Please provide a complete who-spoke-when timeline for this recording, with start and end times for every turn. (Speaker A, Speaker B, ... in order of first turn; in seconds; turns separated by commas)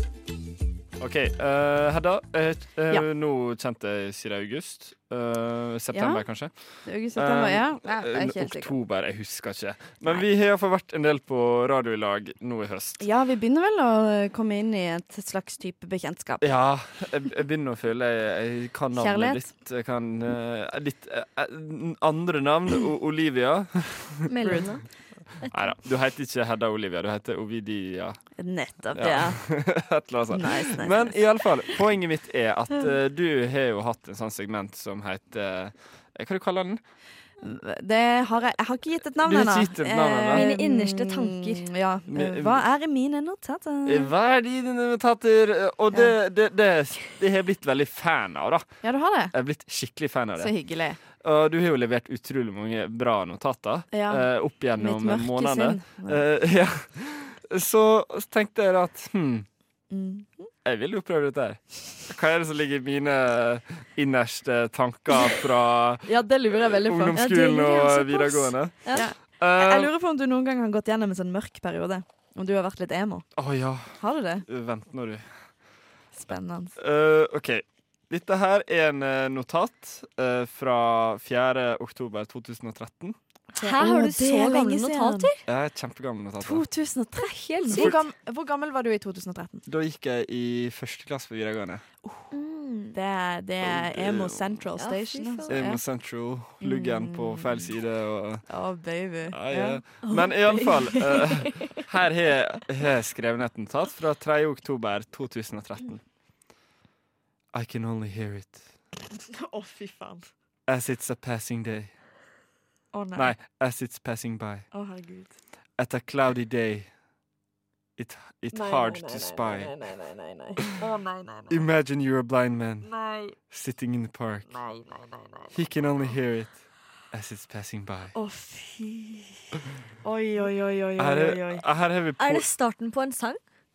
Speaker A: 1.0-13.0, Speaker B: 5.9-6.2, Speaker B: 6.8-8.8, Speaker B: 13.0-16.5, Speaker A: 16.4-24.6, Speaker B: 18.9-19.4, Speaker C: 24.3-24.8, Speaker B: 24.4-24.7, Speaker C: 25.4-25.6, Speaker A: 25.5-28.2, Speaker B: 28.4-29.4, Speaker A: 28.9-36.8, Speaker B: 30.3-31.1, Speaker B: 37.4-44.1, Speaker A: 39.2-40.5, Speaker C: 40.3-41.7, Speaker A: 42.1-42.6, Speaker A: 43.9-48.8, Speaker B: 48.8-49.3, Speaker A: 49.3-50.5, Speaker B: 50.4-51.0, Speaker A: 51.1-59.5, Speaker B: 53.9-54.2, Speaker B: 54.8-56.2, Speaker B: 59.9-60.5, Speaker A: 60.6-69.9, Speaker B: 66.0-67.2, Speaker C: 67.1-69.1, Speaker B: 68.9-73.3, Speaker A: 73.4-75.3, Speaker B: 74.0-74.4, Speaker B: 76.1-76.8, Speaker A: 76.8-83.2, Speaker B: 83.6-85.3, Speaker C: 83.6-85.4, Speaker A: 85.5-86.6, Speaker B: 86.4-89.6, Speaker C: 87.2-88.0, Speaker A: 87.7-88.0, Speaker A: 89.7-91.8, Speaker C: 92.3-92.9, Speaker B: 92.9-95.8, Speaker A: 93.6-94.6, Speaker C: 94.8-95.6, Speaker A: 95.5-98.5, Speaker B: 96.6-97.7, Speaker B: 98.5-100.7, Speaker A: 99.3-106.0, Speaker A: 107.5-108.7, Speaker B: 109.2-110.2, Speaker A: 110.7-111.9, Speaker B: 112.9-113.3, Speaker A: 113.1-114.7, Speaker B: 114.7-115.3, Speaker A: 115.8-116.9, Speaker A: 118.0-119.7, Speaker B: 118.5-121.6, Speaker A: 121.5-122.9, Speaker B: 122.8-123.3, Speaker A: 123.5-124.5, Speaker B: 124.6-125.5, Speaker A: 125.5-128.1, Speaker B: 128.1-129.4, Speaker B: 130.0-131.6, Speaker A: 131.0-132.4, Speaker C: 132.2-133.4